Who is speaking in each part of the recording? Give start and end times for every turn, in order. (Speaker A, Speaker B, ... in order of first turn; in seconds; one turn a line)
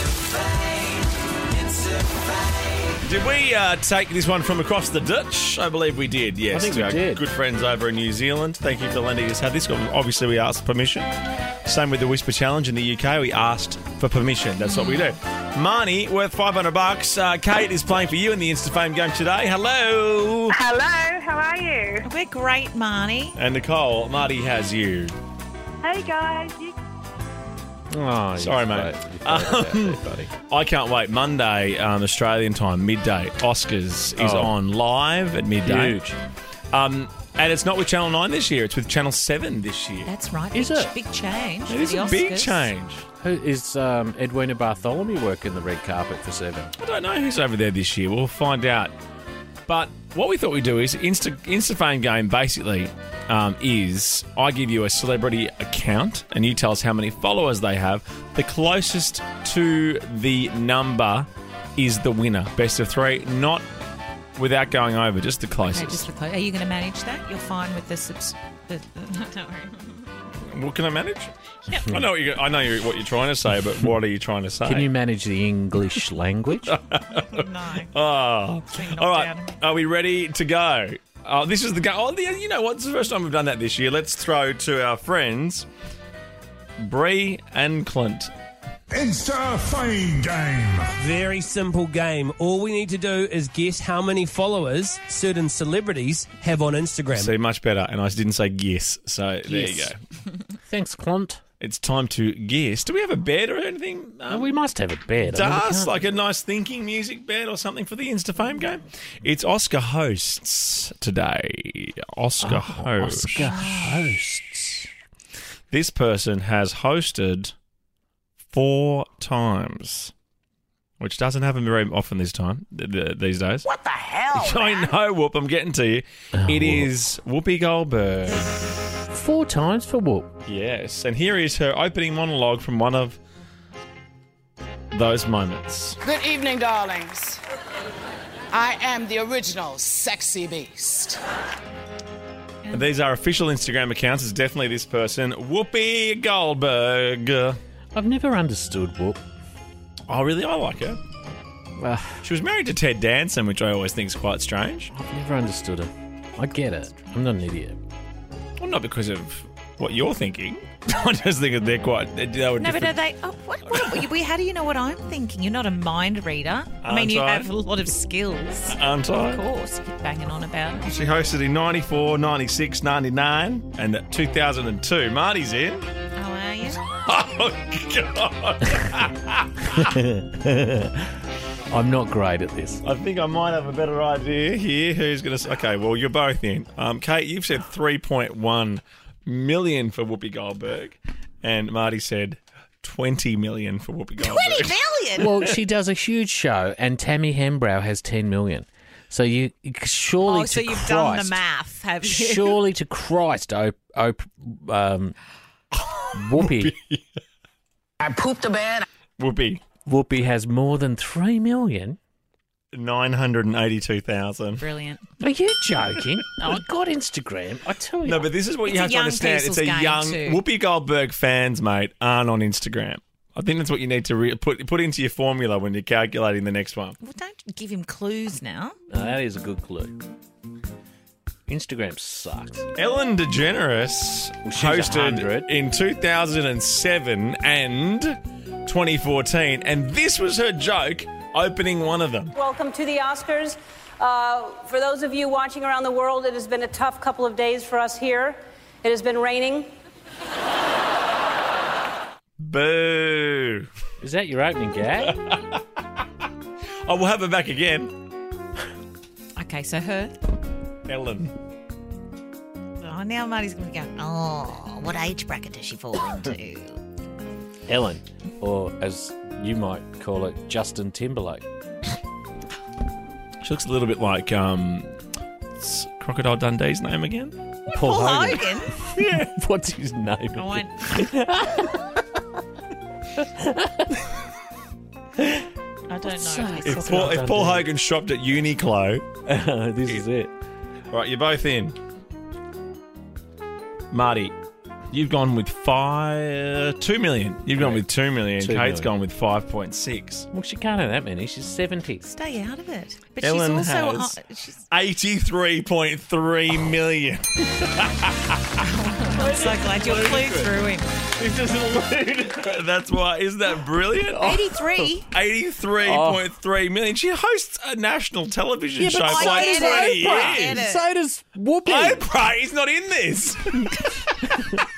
Speaker A: 3.0-11.1
Speaker B: 6.5-7.3
Speaker A: 11.6-20.6
Speaker C: 20.5-22.0
Speaker D: 22.0-23.4
Speaker A: 23.3-25.1
Speaker C: 25.8-26.8
Speaker B: 27.9-30.3
Speaker A: 28.4-36.0
Speaker B: 34.1-34.5
Speaker B: 35.6-36.1
Speaker A: 36.7-40.1
Speaker D: 40.0-42.7
Speaker B: 40.5-40.9
Speaker A: 41.7-43.0
Speaker B: 43.2-46.7
Speaker A: 46.8-48.9
Speaker A: 49.7-63.6
Speaker A: 64.4-66.0
Speaker D: 65.6-70.1
Speaker A: 70.4-71.3
Speaker D: 71.7-72.0
Speaker A: 71.8-74.9
Speaker B: 74.6-76.8
Speaker A: 76.7-85.7
Speaker D: 77.1-77.9
Speaker D: 78.7-79.6
Speaker A: 86.8-88.3
Speaker E: 88.9-90.9
Speaker F: 91.0-97.3
Speaker A: 97.1-100.0
Speaker B: 99.5-99.9
Speaker B: 100.7-101.4
Speaker A: 101.6-104.6
Speaker B: 104.3-106.0
Speaker A: 105.2-113.5
Speaker B: 112.4-114.9
Speaker D: 113.5-113.9
Speaker A: 115.7-117.5
Speaker A: 118.5-120.1
Speaker A: 121.0-123.7
Speaker G: 123.7-124.7
Speaker A: 124.3-128.7
Speaker B: 126.5-126.9
Speaker B: 128.7-130.3
Speaker A: 130.4-133.2
Speaker A: 134.9-136.0
Speaker G: 136.0-137.4
Speaker G: 138.5-141.2
Speaker A: 142.7-147.6
Speaker B: 147.9-149.2
Speaker A: 150.1-151.0
Speaker B: 151.8-152.2
Speaker A: 152.2-154.9
Speaker B: 154.9-157.8
Speaker A: 158.6-163.0
Speaker D: 162.6-170.9
Speaker A: 163.7-164.0
Speaker A: 166.8-167.5
Speaker A: 168.7-169.4
Speaker A: 170.8-175.8
Speaker D: 176.2-176.8
Speaker A: 176.8-179.9
Speaker B: 179.7-181.1
Speaker B: 181.7-182.8
Speaker A: 182.8-194.8
Speaker D: 194.2-195.3
Speaker B: 195.2-201.4
Speaker D: 200.2-202.6
Speaker B: 202.0-205.2
Speaker A: 206.0-207.0
Speaker B: 206.1-206.8
Speaker G: 208.0-208.8
Speaker A: 209.2-209.6
Speaker B: 209.8-212.0
Speaker A: 212.7-214.6
Speaker D: 214.6-215.0
Speaker B: 215.2-218.3
Speaker A: 218.0-226.9
Speaker D: 218.6-220.4
Speaker D: 227.0-228.8
Speaker B: 228.9-230.0
Speaker B: 231.5-232.6
Speaker A: 232.8-242.3
Speaker B: 234.4-235.5
Speaker H: 242.3-249.7
Speaker A: 252.4-253.7
Speaker B: 254.0-255.2
Speaker A: 255.1-255.6
Speaker A: 256.9-257.9
Speaker D: 259.4-260.1
Speaker A: 260.9-261.3
Speaker D: 262.8-266.8
Speaker B: 267.7-271.4
Speaker A: 273.4-274.9
Speaker A: 275.6-277.3
Speaker D: 277.7-278.8
Speaker B: 277.7-282.0
Speaker A: 278.9-279.3
Speaker D: 280.4-280.9
Speaker B: 283.1-284.1
Speaker B: 285.2-285.5
Speaker D: 285.9-287.2
Speaker B: 286.0-287.7
Speaker A: 286.6-289.1
Speaker B: 289.2-290.3
Speaker A: 290.9-291.8
Speaker A: 293.9-294.3
Speaker A: 294.9-300.3
Speaker B: 297.6-297.9
Speaker B: 298.4-298.9
Speaker B: 300.3-302.1
Speaker D: 302.0-304.6
Speaker A: 303.2-304.1
Speaker A: 304.7-308.6
Speaker D: 308.6-310.9
Speaker A: 309.1-310.5
Speaker A: 311.1-314.5
Speaker D: 314.2-315.1
Speaker A: 315.0-320.6
Speaker B: 315.8-316.2
Speaker B: 318.8-322.1
Speaker D: 319.1-320.8
Speaker A: 321.6-324.6